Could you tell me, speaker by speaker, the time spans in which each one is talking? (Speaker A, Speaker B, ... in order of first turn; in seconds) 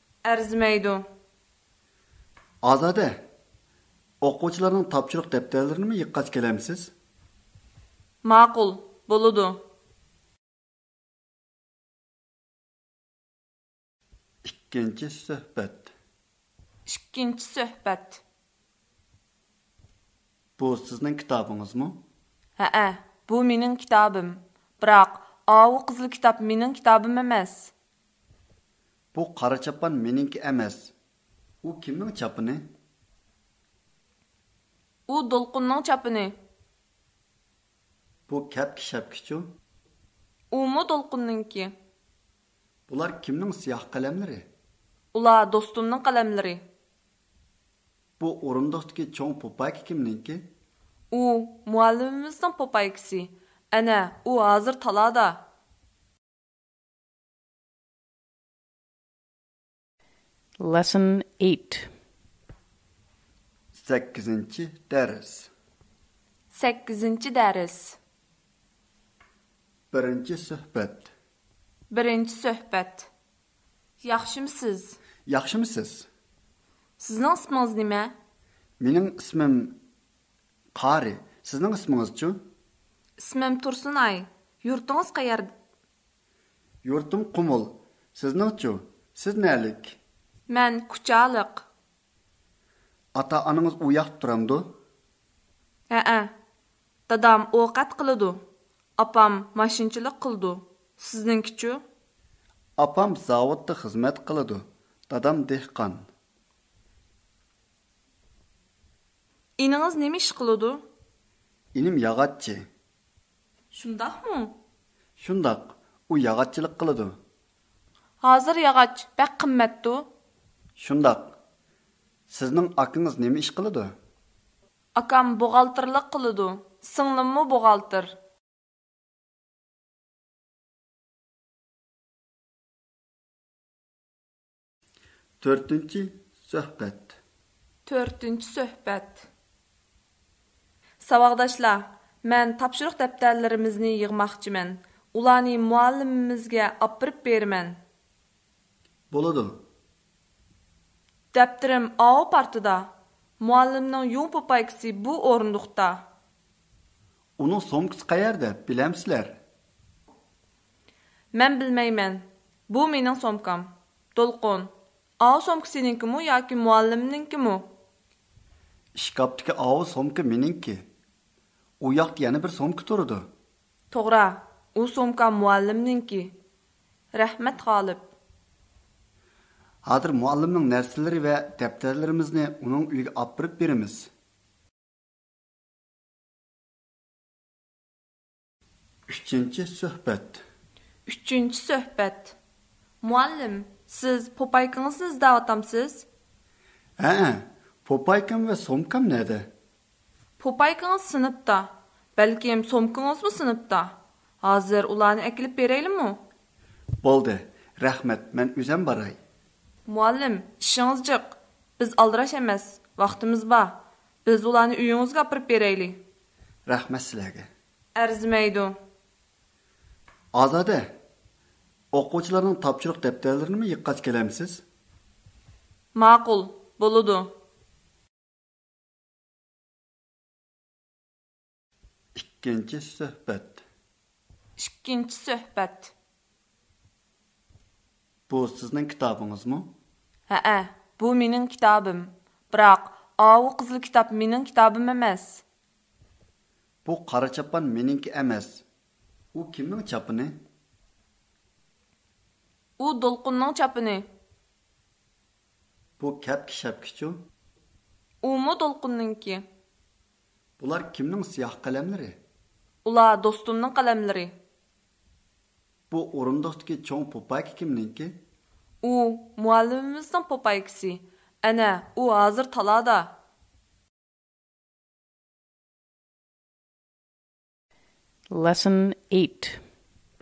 Speaker A: 0.2-1.0, 8.2-9.6, 16.9-18.2, 22.6-27.7, 35.1-36.4, 40.5-41.7, 45.1-46.6, 51.1-55.4, 66.5-68.0, 71.9-73.1, 74.0-75.0, 77.0-78.1, 83.2-85.5, 90.5-91.7, 95.9-96.3, 97.1-98.4, 99.0-101.8, 109.6-110.8, 113.7-114.5, 118.2-120.1, 125.0-128.1, 137.8-139.3, 141.0-147.8, 151.3-156.0, 161.3-167.7, 173.9-176.3, 177.1-178.1, 191.1-192.3, 193.0-196.1, 200.4-206.2, 209.8-216.0, 217.9-218.7, 225.9-227.3, 234.6-235.9, 240.3-245.4, 252.8-254.1, 258.2-259.4, 262.8-264.3, 268.8-273.1
Speaker B: 2.6-3.2, 4.2-6.9, 14.4-15.9, 20.6-22.0, 29.1-30.9, 31.6-32.7, 38.3-39.5, 42.9-44.5, 48.2-50.5, 63.7-65.5, 69.9-71.1, 75.3-76.1, 78.8-79.8, 80.7-82.4, 86.8-90.0, 93.1-94.7, 102.8-106.1, 111.7-112.7, 115.2-117.2, 120.8-121.3, 122.3-123.9, 135.4-137.2, 149.1-149.6, 157.4-159.4, 168.9-170.8, 171.8-173.3, 179.8-184.1, 189.1-190.4, 197.0-199.5, 207.0-209.2, 216.7-217.5, 220.3-220.9, 221.9-224.6, 232.1-233.6, 238.3-239.7, 246.8-248.6, 249.3-250.3, 256.0-257.1, 260.6-262.2, 265.9-268.2
Speaker C: 60.6-61.9, 278.3-279.6